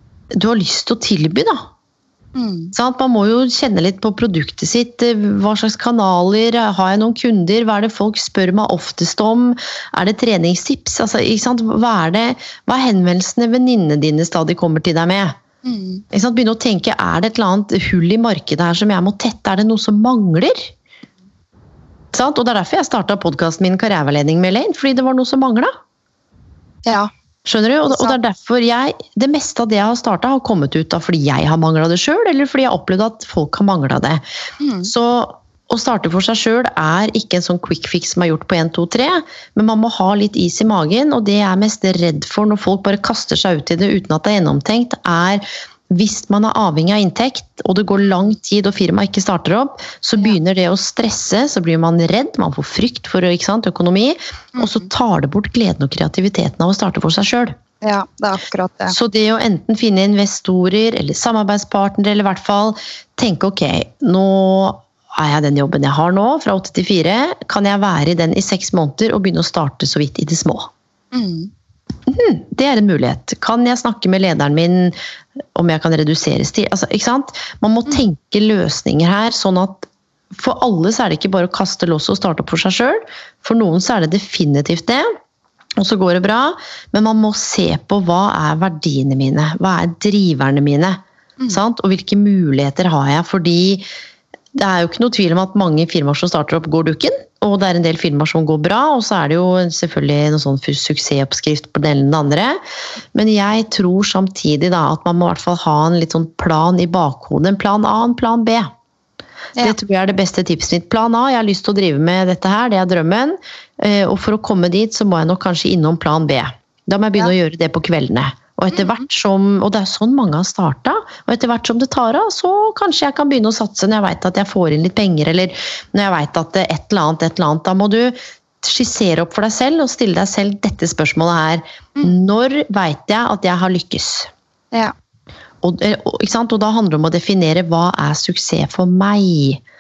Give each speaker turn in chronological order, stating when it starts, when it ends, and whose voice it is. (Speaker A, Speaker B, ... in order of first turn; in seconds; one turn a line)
Speaker A: 0.3-1.6
Speaker B: 2.4-2.7
Speaker A: 2.8-15.4
Speaker B: 15.6-16.0
Speaker A: 16.1-20.7
Speaker A: 22.1-25.7
Speaker A: 27.4-34.2
Speaker B: 27.9-28.2
Speaker B: 34.6-34.9
Speaker A: 34.9-57.6
Speaker B: 54.6-54.9
Speaker B: 57.8-59.0
Speaker A: 58.9-70.7
Speaker B: 71.1-71.5
Speaker A: 72.1-75.0
Speaker A: 75.5-85.1
Speaker A: 85.8-93.9
Speaker A: 94.5-102.6
Speaker A: 103.1-108.7
Speaker A: 109.6-134.3
Speaker B: 118.7-119.0
Speaker A: 135.6-139.6